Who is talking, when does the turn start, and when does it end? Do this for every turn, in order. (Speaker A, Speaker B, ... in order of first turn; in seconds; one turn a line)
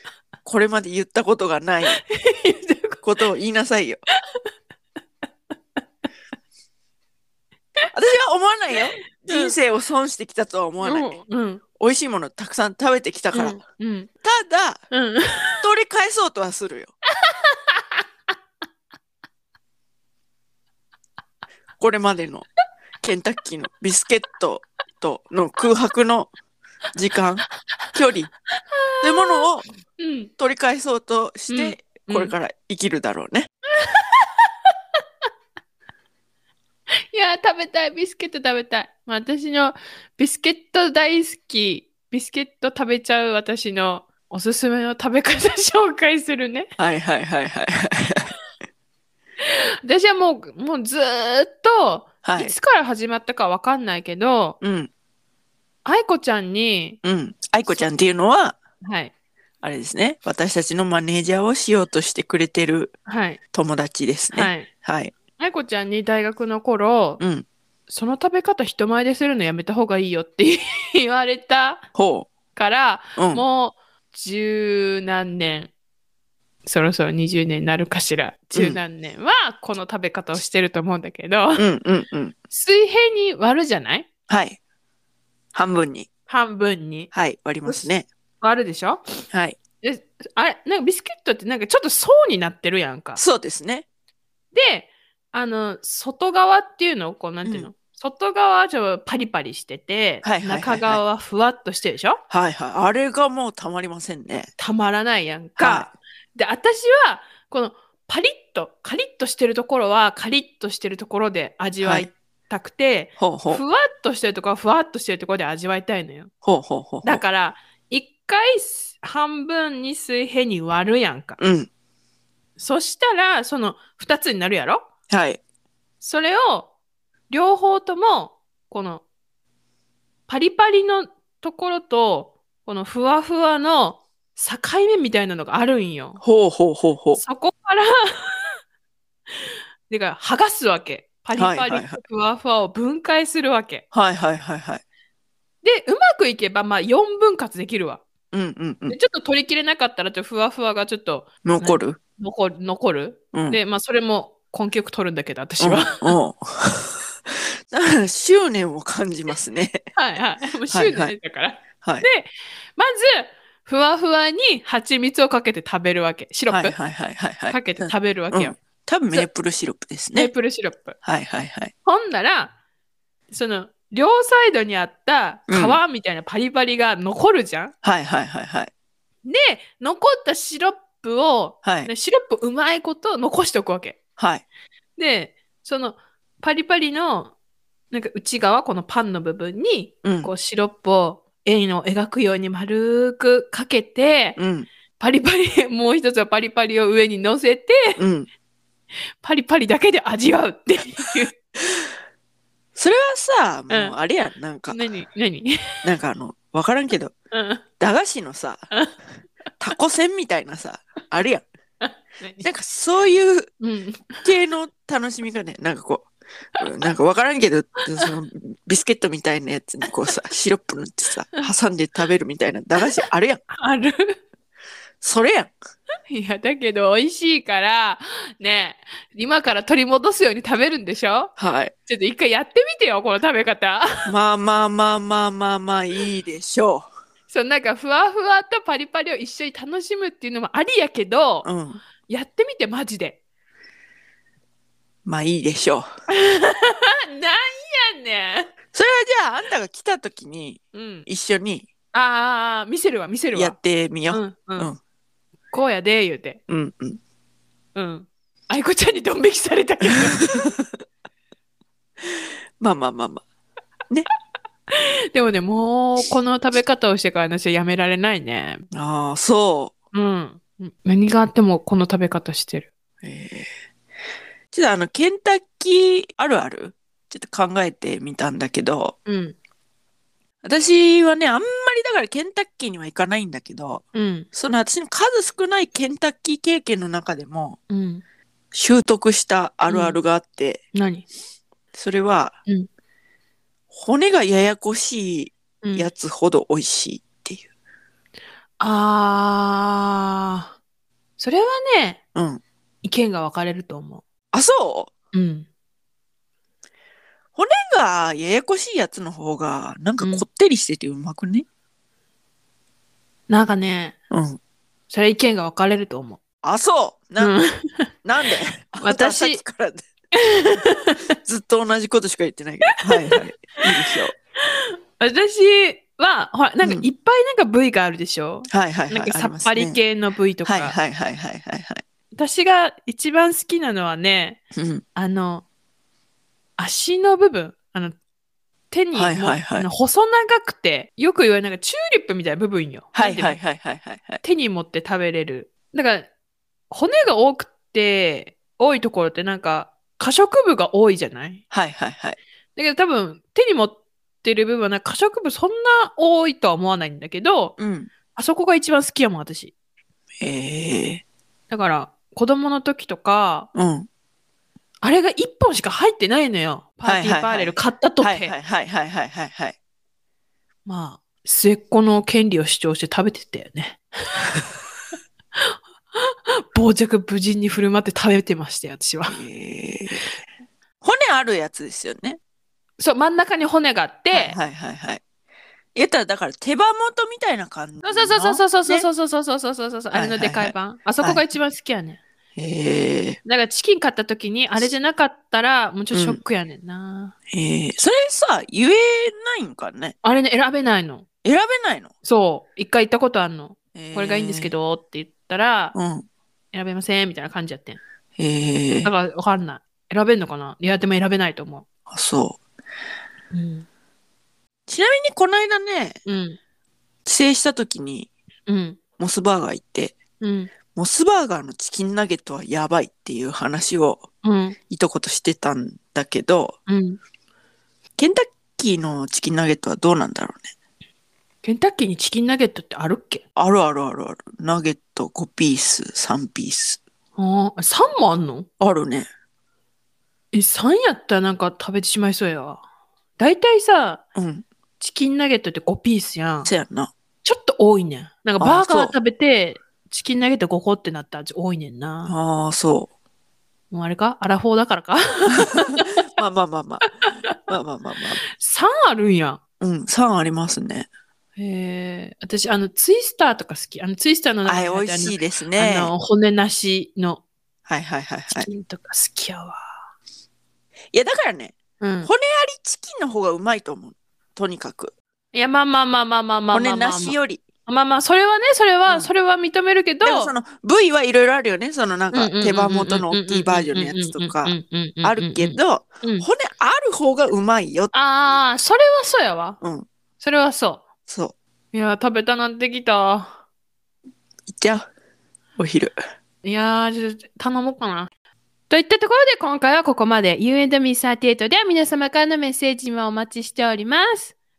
Speaker A: 0.4-2.0
Speaker B: 1.9-3.0
Speaker A: 3.0-4.0
Speaker A: 7.9-11.1
Speaker B: 8.9-9.5
Speaker B: 10.8-11.6
Speaker A: 11.8-13.6
Speaker B: 13.3-14.1
Speaker A: 14.2-14.8
Speaker B: 14.9-15.6
Speaker A: 15.6-16.9
Speaker B: 17.2-17.8
Speaker A: 21.8-22.4
Speaker A: 23.0-26.3
Speaker A: 26.9-28.3
Speaker B: 28.6-29.4
Speaker A: 29.0-29.7
Speaker B: 30.0-30.3
Speaker A: 30.4-33.5
Speaker B: 31.5-32.3
Speaker B: 33.8-34.5
Speaker B: 37.1-46.7
Speaker A: 46.8-48.3
Speaker B: 49.4-54.6
Speaker A: 52.2-52.5
Speaker A: 54.6-54.9
Speaker B: 55.8-57.0
Speaker A: 57.0-58.6
Speaker B: 58.8-59.1
Speaker A: 59.6-62.9
Speaker B: 63.0-63.4
Speaker A: 63.5-65.1
Speaker B: 64.3-64.7
Speaker B: 65.4-67.2
Speaker A: 67.2-67.4
Speaker B: 67.9-71.8
Speaker A: 72.0-72.3
Speaker B: 72.5-75.7
Speaker A: 73.2-73.4
Speaker B: 76.6-81.6
Speaker A: 78.5-78.8
Speaker A: 81.6-82.3
Speaker B: 82.5-84.1
Speaker A: 84.3-84.6
Speaker A: 85.5-86.1
Speaker B: 86.3-87.1
Speaker A: 87.1-88.1
Speaker B: 88.4-89.0
Speaker A: 89.3-89.6
Speaker B: 89.8-93.2
Speaker A: 93.2-93.8
Speaker B: 94.5-102.2
Speaker A: 100.2-101.0
Speaker A: 102.3-104.5
Speaker B: 104.6-116.3
Speaker A: 105.6-105.9
Speaker A: 111.8-112.1
Speaker A: 113.2-113.6
Speaker A: 116.4-117.2
Speaker B: 117.0-121.4
Speaker A: 121.4-121.7
Speaker B: 122.6-124.9
Speaker A: 125.1-125.4
Speaker B: 126.0-126.7
Speaker B: 127.3-129.0
Speaker B: 130.3-136.2
Speaker A: 136.2-137.2
Speaker B: 137.2-138.6
Speaker B: 139.4-143.8
Speaker A: 141.3-142.0
Speaker A: 143.9-144.8
Speaker B: 145.6-148.0
Speaker A: 148.3-149.0
Speaker B: 148.9-156.2
Speaker A: 151.4-152.0
Speaker A: 153.3-153.6
Speaker A: 155.6-159.8
Speaker B: 159.9-166.8
Speaker A: 160.7-161.1
Speaker A: 166.5-170.3
Speaker B: 167.5-168.6
Speaker B: 170.1-171.0
Speaker A: 171.0-171.7
Speaker B: 171.8-172.5
Speaker B: 173.3-177.7
Speaker A: 175.5-175.8
Speaker A: 177.8-178.7
Speaker B: 179.2-184.0
Speaker A: 181.6-181.9
Speaker A: 184.2-184.4
Speaker B: 185.0-187.3
Speaker B: 187.9-194.4
Speaker A: 190.0-190.3
Speaker A: 194.4-194.7
Speaker B: 195.0-198.0
Speaker A: 198.0-198.3
Speaker B: 199.2-201.3
Speaker A: 202.8-204.8
Speaker B: 203.7-203.9
Speaker B: 204.7-205.9
Speaker A: 205.8-207.1
Speaker B: 207.3-207.6
Speaker A: 207.8-208.7
Speaker A: 209.6-211.4
Speaker B: 211.8-212.5
Speaker A: 212.4-213.5
Speaker B: 213.6-214.3
Speaker A: 214.2-216.1
Speaker A: 216.6-223.4
Speaker B: 223.5-224.2
Speaker A: 225.0-225.5
Speaker B: 226.1-231.3
Speaker A: 231.4-231.7
Speaker B: 231.9-234.1
Speaker A: 234.0-236.9
Speaker B: 237.3-241.5
Speaker A: 241.4-241.8
Speaker B: 242.1-243.2
Speaker A: 245.1-245.9
Speaker B: 246.1-248.5
Speaker A: 248.7-251.7
Speaker B: 250.7-251.1
Speaker B: 251.9-253.6
Speaker A: 253.3-254.8
Speaker B: 254.1-254.7
Speaker B: 255.5-256.4
Speaker A: 256.5-257.0
Speaker B: 257.7-260.5
Speaker A: 259.8-260.4
Speaker A: 262.6-263.2
Speaker B: 264.7-268.6
Speaker A: 268.7-269.7
Speaker B: 269.9-272.7
Speaker A: 273.0-273.5
Speaker A: 274.5-278.9
Speaker B: 279.1-279.3
Speaker A: 280.4-287.6
Speaker B: 283.9-284.3
Speaker B: 287.7-288.0
Speaker A: 288.5-290.6
Speaker B: 289.7-290.0
Speaker B: 290.7-291.1
Speaker A: 291.7-292.4
Speaker A: 293.7-297.4
Speaker B: 295.6-295.9
Speaker B: 298.6-300.5
Speaker B: 301.2-302.0
Speaker A: 302.1-302.4
Speaker B: 302.8-304.0
Speaker A: 304.3-304.9
Speaker B: 305.1-305.5
Speaker A: 307.3-311.4
Speaker B: 310.0-310.2
Speaker B: 313.3-313.9
Speaker A: 314.1-314.4
Speaker B: 314.9-316.2
Speaker A: 316.4-317.4
Speaker B: 317.2-317.9
Speaker A: 318.0-319.8
Speaker B: 318.8-319.4
Speaker B: 320.1-321.0
Speaker A: 321.2-324.2
Speaker B: 324.5-330.8
Speaker A: 326.6-326.9
Speaker A: 328.5-329.8
Speaker A: 330.4-331.8
Speaker B: 332.1-334.4
Speaker A: 334.5-334.8
Speaker B: 334.9-335.4
Speaker B: 336.6-338.0
Speaker B: 338.7-343.4
Speaker A: 338.9-339.7
Speaker A: 342.9-344.2
Speaker B: 344.2-346.1
Speaker B: 346.7-351.4
Speaker A: 351.5-352.2
Speaker B: 352.6-357.5
Speaker A: 357.6-357.9
Speaker B: 358.1-359.5
Speaker A: 360.2-361.0
Speaker B: 361.5-363.5
Speaker A: 363.5-363.9
Speaker B: 364.8-368.3
Speaker A: 366.8-369.6
Speaker B: 370.6-374.4
Speaker B: 375.4-379.2
Speaker A: 379.1-380.2
Speaker A: 380.8-382.2
Speaker B: 382.8-384.4
Speaker A: 384.1-385.0
Speaker A: 385.7-388.9
Speaker B: 387.8-392.0
Speaker A: 389.9-391.2
Speaker A: 392.4-393.2
Speaker B: 393.2-397.1
Speaker A: 395.9-396.2
Speaker A: 397.3-399.9
Speaker B: 400.0-401.1
Speaker A: 401.2-401.9
Speaker B: 402.0-405.7
Speaker A: 403.7-404.5
Speaker A: 405.7-406.1
Speaker B: 406.5-407.8
Speaker A: 408.2-408.9
Speaker B: 408.8-411.6
Speaker A: 411.9-412.4
Speaker B: 413.3-413.6
Speaker A: 414.7-416.0
Speaker B: 416.1-416.4
Speaker A: 417.0-418.1
Speaker B: 418.5-418.8
Speaker A: 419.0-419.9
Speaker B: 420.2-420.5
Speaker A: 420.7-424.0
Speaker B: 424.2-424.6
Speaker A: 424.7-426.6
Speaker B: 426.7-427.0
Speaker A: 428.0-430.5
Speaker B: 431.4-433.2
Speaker A: 433.4-436.8
Speaker B: 437.1-438.4
Speaker A: 438.6-439.1
Speaker B: 440.3-442.6
Speaker B: 443.2-444.0
Speaker A: 444.1-444.4
Speaker B: 444.8-446.5
Speaker A: 446.4-446.9
Speaker B: 447.2-452.1
Speaker A: 448.4-448.9
Speaker A: 452.1-452.9
Speaker B: 453.7-456.0
Speaker A: 456.1-456.9
Speaker B: 456.9-457.3
Speaker A: 457.5-458.2
Speaker B: 458.3-459.4
Speaker A: 459.6-460.9
Speaker B: 461.4-467.2
Speaker A: 464.4-465.9
Speaker A: 467.7-468.5
Speaker B: 468.3-469.8
Speaker A: 470.9-474.9
Speaker B: 471.8-472.1
Speaker B: 475.3-480.3
Speaker A: 476.5-477.4
Speaker A: 480.0-488.4
Speaker B: 482.1-486.3
Speaker B: 487.9-489.6
Speaker A: 489.6-489.9
Speaker B: 490.2-490.8
Speaker A: 491.1-491.3
Speaker B: 491.7-493.3
Speaker A: 494.5-494.9
Speaker A: 495.6-495.9
Speaker B: 496.4-498.1
Speaker B: 498.7-504.3